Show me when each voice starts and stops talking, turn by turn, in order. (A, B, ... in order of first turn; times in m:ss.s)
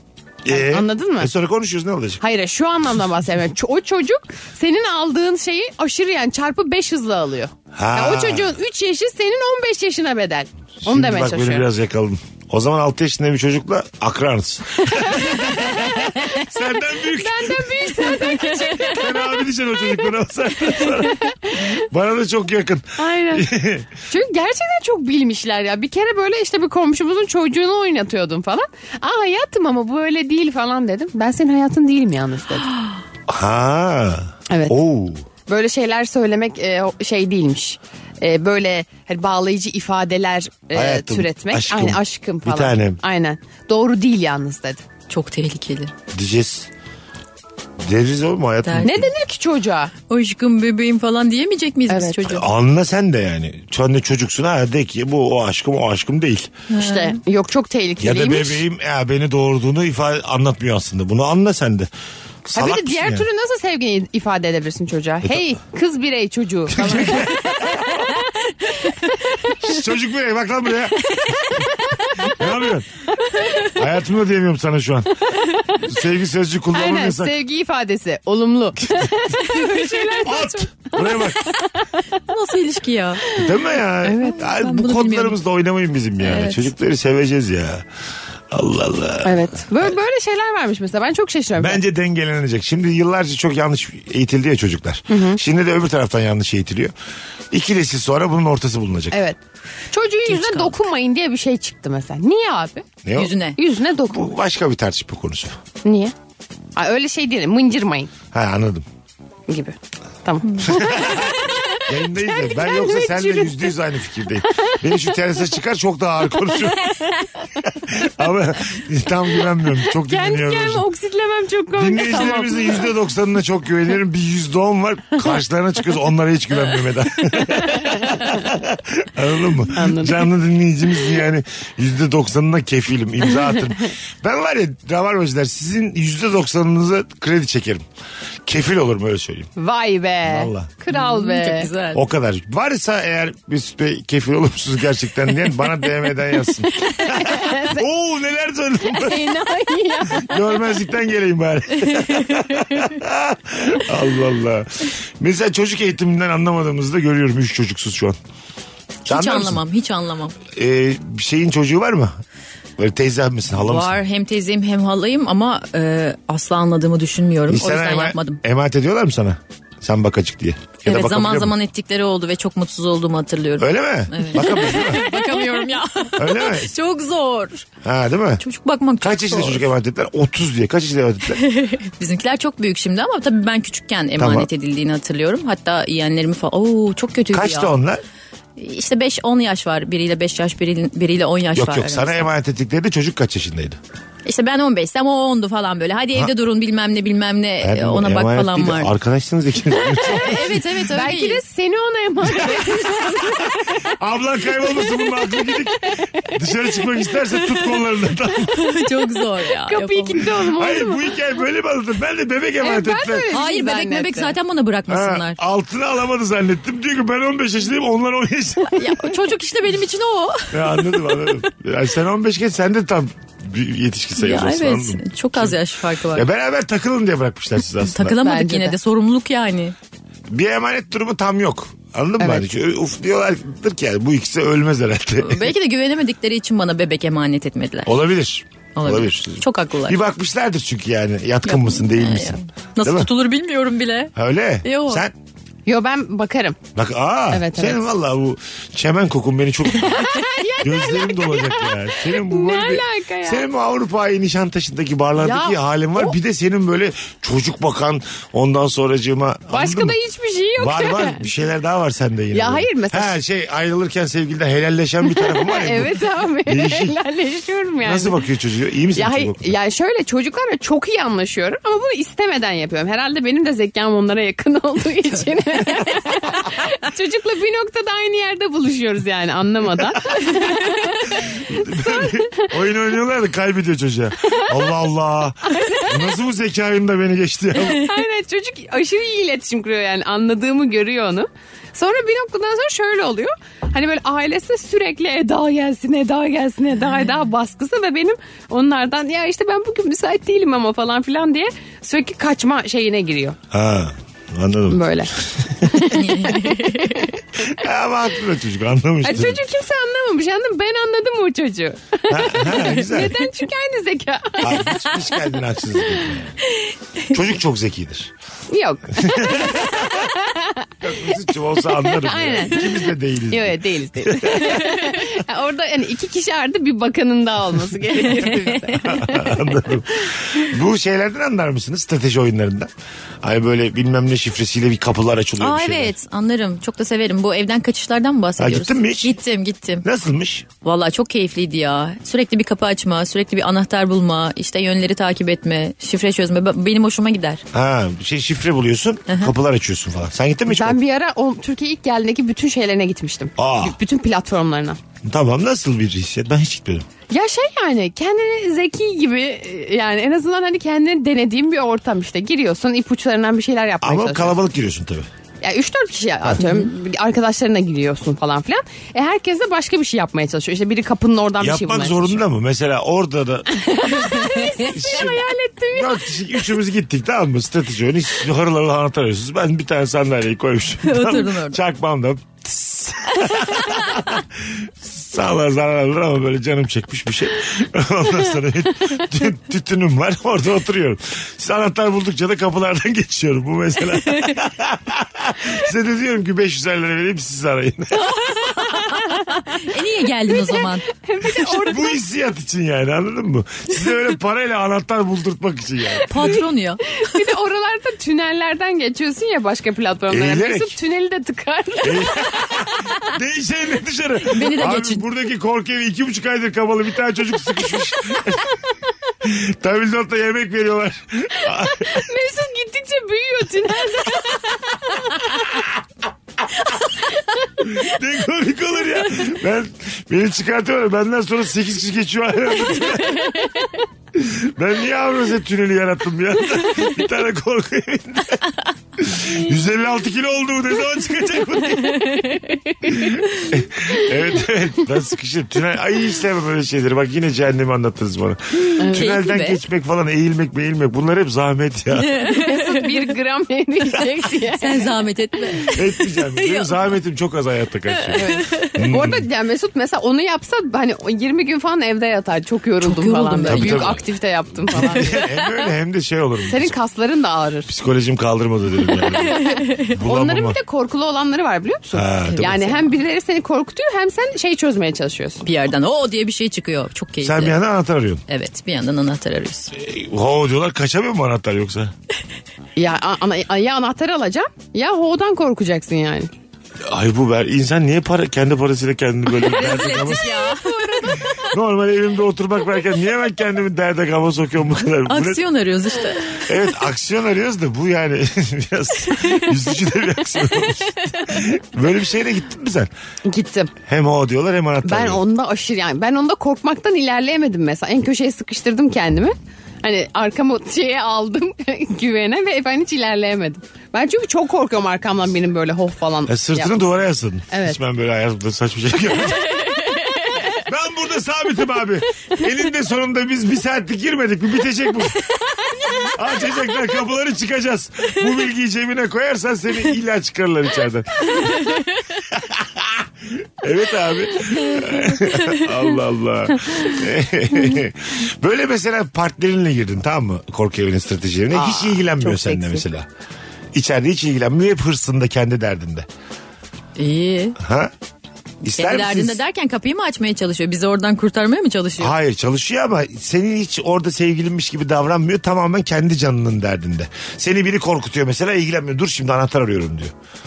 0:00.4-0:02.2 A
0:00.5-0:01.3 B
0:02.2-0:11.7 B
0:07.7-0:08.6 A
0:10.8-0:23.9 A
0:14.9-0:20.1 B
0:20.6-0:21.8 B
0:23.0-0:23.5 B
0:24.1-0:32.7 B
0:33.3-0:35.2 A
0:34.5-0:34.8 B
0:35.5-0:44.8 B
0:40.7-0:43.0 A
0:45.1-0:45.9 C
0:46.1-0:46.7 A
0:47.8-0:49.1 A
0:48.6-0:49.1 C
0:48.8-0:49.9 B
0:50.1-0:52.4 C
0:51.9-0:52.4 B
0:52.3-0:56.5 A
0:56.7-0:57.2 C
0:56.8-0:58.6 B
0:58.0-1:01.9 A
1:02.4-1:03.3 A
1:02.5-1:08.1 B
1:06.7-1:08.1 A
1:08.6-1:09.5 B
1:09.6-1:11.6 A
1:11.3-1:12.2 B
1:12.2-1:12.9 A
1:13.2-1:13.7 B
1:13.6-1:17.3 A
1:16.7-1:21.8 B
1:20.2-1:21.5 A
1:22.2-1:23.2 C
1:23.3-1:24.4 B
1:23.3-1:27.9 A
1:24.2-1:25.4 C
1:26.2-1:26.7 C
1:28.5-1:29.9 A
1:29.2-1:31.8 B
1:31.6-1:36.9 A
1:35.1-1:35.4 B
1:37.5-1:39.2 A
1:39.1-1:39.4 B
1:39.9-1:42.9 B
1:40.2-1:40.8 C
1:43.0-1:43.3 A
1:43.2-1:43.6 C
1:43.6-1:44.3 B
1:44.1-1:45.6 A
1:45.8-1:46.1 B
1:46.8-1:48.1 B
1:48.3-1:48.8 A
1:49.5-1:53.7 B
1:50.5-1:50.8 C
1:50.6-1:57.1 A
1:54.5-1:55.0 B
1:56.8-1:57.2 B
1:57.7-2:00.8 A
1:59.7-2:02.9 B
2:01.7-2:17.8 A
2:07.5-2:08.3 B
2:09.7-2:10.3 B
2:18.4-2:19.5 A
2:19.6-2:21.7 B
2:20.2-2:20.7 A
2:20.9-2:22.0 C
2:21.9-2:29.3 A
2:26.7-2:27.8 B
2:28.8-2:30.8 B
2:30.1-2:38.2 A
2:39.0-2:39.6 A
2:39.1-2:40.4 C
2:40.5-2:42.2 A
2:42.8-2:44.0 A
2:43.6-2:48.4 C
2:47.5-2:51.5 A
2:50.8-2:57.6 C
2:53.6-2:55.2 A
2:56.2-2:56.7 A
2:57.8-2:58.4 A
2:58.4-2:59.6 C
2:59.0-3:01.4 A
3:01.3-3:07.7 C
3:04.2-3:04.5 A
3:07.3-3:08.0 A
3:08.6-3:12.3 C
3:11.6-3:13.8 A
3:14.2-3:18.9 C
3:17.6-3:20.6 A
3:20.0-3:21.4 C
3:20.0-3:23.9 B
3:22.3-3:28.7 A
3:24.9-3:25.6 B
3:28.5-3:30.2 C
3:29.6-3:31.0 B
3:30.2-3:33.3 A
3:32.6-3:34.3 B
3:33.3-3:35.4 C
3:34.9-3:39.0 A
3:38.7-3:41.3 C
3:40.5-3:45.6 A
3:44.2-3:46.3 C
3:46.1-3:48.2 A
3:47.9-3:49.7 C
3:48.2-3:48.8 B
3:50.3-3:55.5 A
3:55.2-3:57.9 C
3:57.8-4:03.1 A
3:58.7-4:00.0 C
4:01.4-4:05.0 C
4:04.1-4:05.1 A
4:05.6-4:06.6 B
4:06.7-4:20.0 A
4:07.3-4:07.9 B
4:09.8-4:13.4 B
4:15.2-4:16.1 B
4:19.5-4:21.3 B
4:20.6-4:27.0 A
4:22.3-4:23.2 B
4:25.1-4:28.2 B
4:27.8-4:29.5 A
4:28.9-4:42.6 B
4:41.1-4:47.9 A
4:44.3-4:44.6 B
4:45.4-4:46.1 B
4:47.6-5:03.4 B
5:03.5-5:05.7 A
5:04.7-5:05.1 B
5:05.7-5:07.1 B
5:05.8-5:07.1 C
5:07.4-5:09.4 A
5:09.0-5:15.0 B
5:12.1-5:13.2 A
5:14.4-5:16.4 A
5:17.1-5:18.1 A
5:18.5-5:29.6 B
5:18.9-5:20.1 A
5:20.8-5:24.8 A
5:28.6-5:32.7 A
5:33.2-5:35.9 A
5:35.4-5:39.8 C
5:38.4-5:39.2 A
5:39.8-5:40.5 A
5:40.6-5:47.4 C
5:47.5-5:50.8 A
5:49.1-5:49.3 C
5:50.5-5:54.8 B
5:53.4-5:53.8 A
5:55.0-5:56.8 A
5:57.1-6:04.4 B
6:03.8-6:05.1 A
6:05.4-6:12.2 B
6:11.4-6:14.0 A
6:13.5-6:16.5 B
6:14.1-6:14.8 C
6:14.7-6:38.4 A
6:20.8-6:21.6 C
6:23.2-6:24.0 C
6:38.0-6:41.4 C
6:38.4-6:39.4 B
6:40.2-6:42.0 B
6:41.5-6:46.4 A
6:46.1-6:46.9 C
6:47.0-6:52.7 B
6:50.1-6:50.7 A
6:51.8-6:58.6 A
6:54.3-6:55.0 C
6:59.2-7:02.1 A
7:01.4-7:05.4 B
7:07.6-7:13.5 A
7:14.1-7:22.3 A
7:21.9-7:23.5 C
7:22.8-7:32.2 A
7:28.8-7:29.6 C
7:32.0-7:33.1 C
7:32.3-7:34.9 B
7:34.5-7:36.8 C
7:35.7-7:39.3 A
7:38.0-7:38.8 C
7:38.1-7:45.3 B
7:42.8-7:44.0 C
7:43.4-7:44.0 A
7:44.7-7:46.7 A
7:44.7-7:45.6 C
7:46.4-7:47.7 B
7:47.7-7:50.6 A
7:49.1-7:55.4 B
7:49.2-7:49.9 C
7:51.9-7:52.8 A
7:55.4-7:57.6 C
7:57.2-7:58.2 A
7:58.3-7:59.7 C
7:59.7-8:01.9 A
8:02.8-8:06.3 B
8:06.8-8:10.5 A
8:09.4-8:11.4 C
8:09.4-8:11.3 B
8:11.4-8:15.4 A
8:15.0-8:16.5 C
8:16.4-8:22.9 A
8:19.1-8:19.5 C
8:23.2-8:23.7 B
8:23.8-8:25.2 A
8:24.8-8:36.8 B
8:36.3-8:39.8 A
8:37.5-8:37.8 B
8:39.3-8:40.6 B
8:40.6-8:45.3 A
8:45.9-8:46.2 B
8:46.0-8:51.6 A
8:51.5-8:51.8 C
8:52.3-9:03.1 A
8:55.3-8:55.6 C
9:01.5-9:02.8 B
9:03.7-9:06.1 A
9:07.0-9:07.6 C
9:07.6-9:07.9 A
9:08.6-9:09.4 A
9:08.7-9:12.1 C
9:12.0-9:20.1 A